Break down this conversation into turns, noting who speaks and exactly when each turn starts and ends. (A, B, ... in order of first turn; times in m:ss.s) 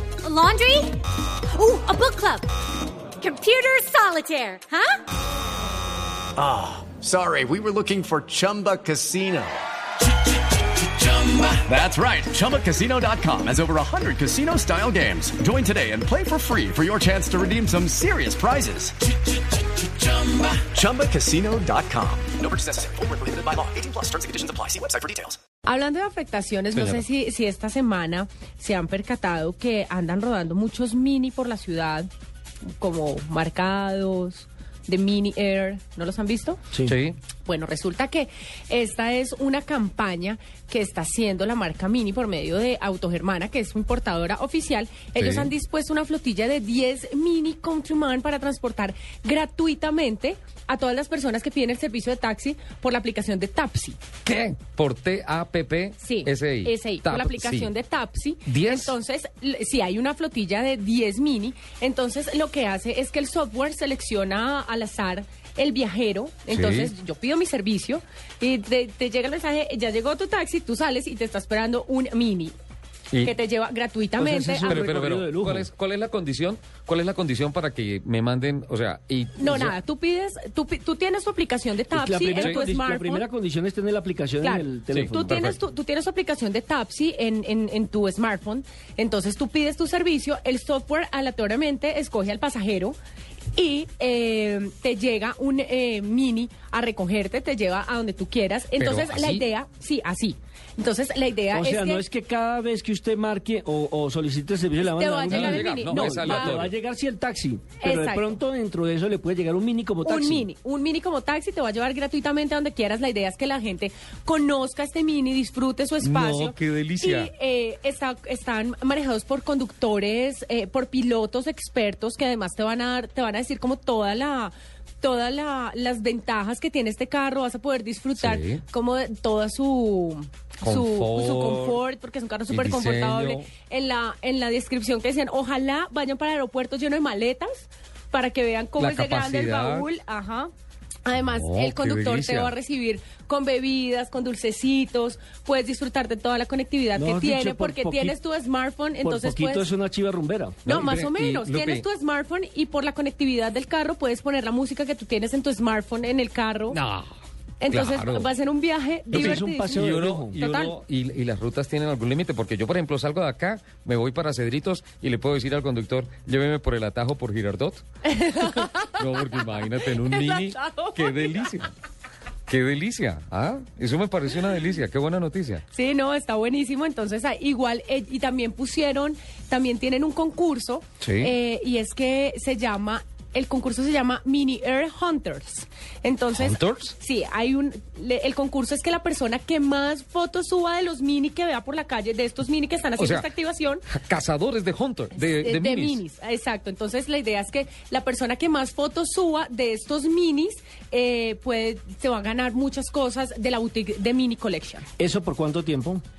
0:00.2-0:01.0 A
0:01.5-0:02.5 A
0:03.2-0:05.0 A
0:06.4-0:09.6 B
0:10.8-0:19.0 B
0:20.0-0:25.4 B
0:25.6-0:32.1 C
0:26.7-0:27.0 D
0:32.8-0:36.6 C
0:36.8-0:37.2 D
0:37.4-0:54.0 C
0:45.2-0:45.5 D
0:54.2-0:57.7 D
0:56.0-1:12.5 C
0:58.4-0:59.0 D
1:06.5-1:06.9 D
1:13.2-1:14.8 C
1:14.2-1:15.7 E
1:14.6-1:19.7 D
1:19.4-1:23.3 C
1:21.9-1:25.5 E
1:24.4-1:33.0 C
1:24.9-1:25.6 D
1:33.5-1:42.0 C
1:38.8-1:39.5 D
1:41.5-1:50.5 E
1:44.8-1:46.6 C
1:45.3-1:46.7 D
1:47.8-1:48.4 C
1:50.0-2:20.5 C
1:56.0-1:57.3 D
2:08.2-2:08.6 D
2:10.6-2:11.8 D
2:12.5-2:13.5 D
2:18.8-2:19.9 D
2:21.0-2:29.7 C
2:21.2-2:22.5 D
2:26.9-2:28.2 E
2:29.0-2:30.8 E
2:30.6-2:31.8 D
2:30.6-2:36.8 C
2:36.7-2:37.1 D
2:37.6-2:40.7 C
2:37.7-2:38.3 D
2:39.1-2:40.4 E
2:39.1-2:51.7 D
2:48.1-2:49.0 C
2:49.8-2:51.3 C
2:52.5-2:55.6 D
2:55.7-3:13.8 C
3:01.0-3:01.3 D
3:06.3-3:07.0 D
3:13.0-3:13.3 D
3:13.9-3:16.0 D
3:15.1-3:24.8 C
3:25.0-3:26.0 E